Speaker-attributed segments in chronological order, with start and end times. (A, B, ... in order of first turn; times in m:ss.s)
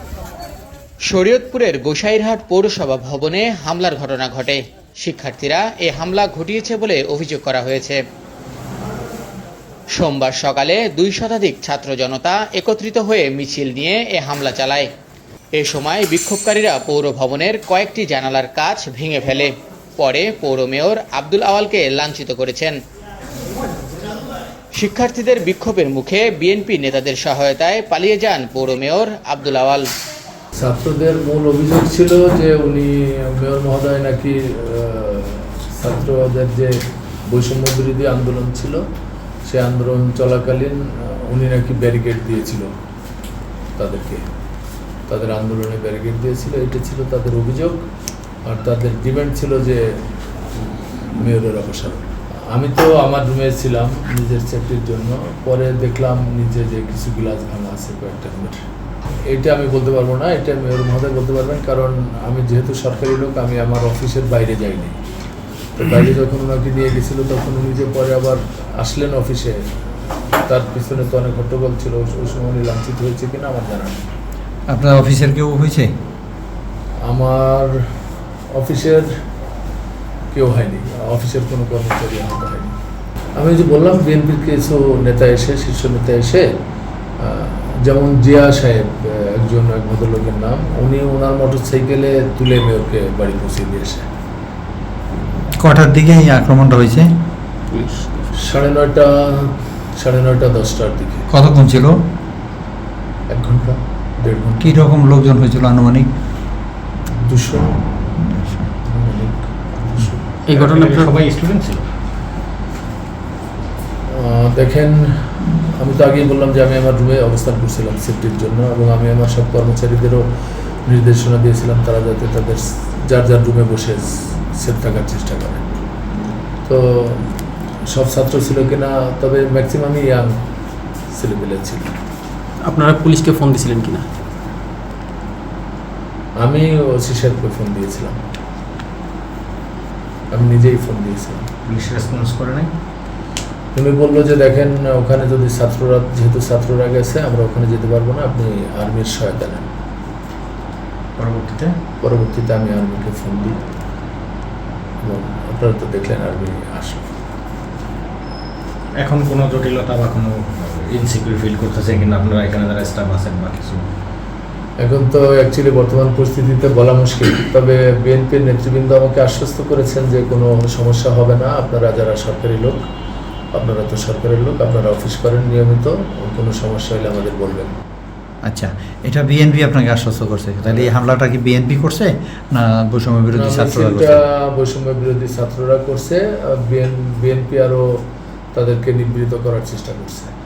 0:01.1-0:08.0 A
0:09.9-0:14.9 A
0:15.6-0:22.8 A
0:24.8-0:29.9 A
0:30.6-0:38.8 B
0:39.4-0:42.7 B
0:43.8-0:44.2 B
0:45.1-0:47.8 B
0:48.4-0:50.0 B
0:51.2-0:58.6 B
0:59.3-1:05.0 B
1:05.8-1:09.6 B
1:10.5-1:14.0 B
1:14.7-1:15.9 C
1:17.0-1:17.8 B
1:18.5-1:19.1 B
1:20.3-1:22.7 B
1:23.4-1:26.5 B
1:27.2-1:34.1 B
1:35.5-1:37.1 C
1:37.7-1:38.3 D
1:38.4-1:41.3 B
1:41.3-1:42.0 C
1:43.3-1:44.8 B
1:44.6-1:46.1 C
1:47.2-1:47.8 B
1:48.2-1:48.7 C
1:48.8-1:50.3 B
1:50.5-1:51.2 D
1:50.5-1:51.8 E
1:54.1-2:00.3 B
2:00.8-2:05.7 B
2:06.6-2:07.3 B
2:07.9-2:10.3 B
2:11.1-2:11.9 B
2:12.6-2:14.0 D
2:16.4-2:18.2 B
2:20.3-2:21.5 B
2:21.6-2:22.7 E
2:23.7-2:29.7 B
2:31.2-2:31.7 E
2:32.0-2:33.6 B
2:35.0-2:37.1 B
2:38.9-2:43.9 E
2:44.8-2:52.8 B
2:53.5-2:57.8 B
2:58.4-3:04.2 C
3:03.3-3:08.0 B
3:08.5-3:10.4 B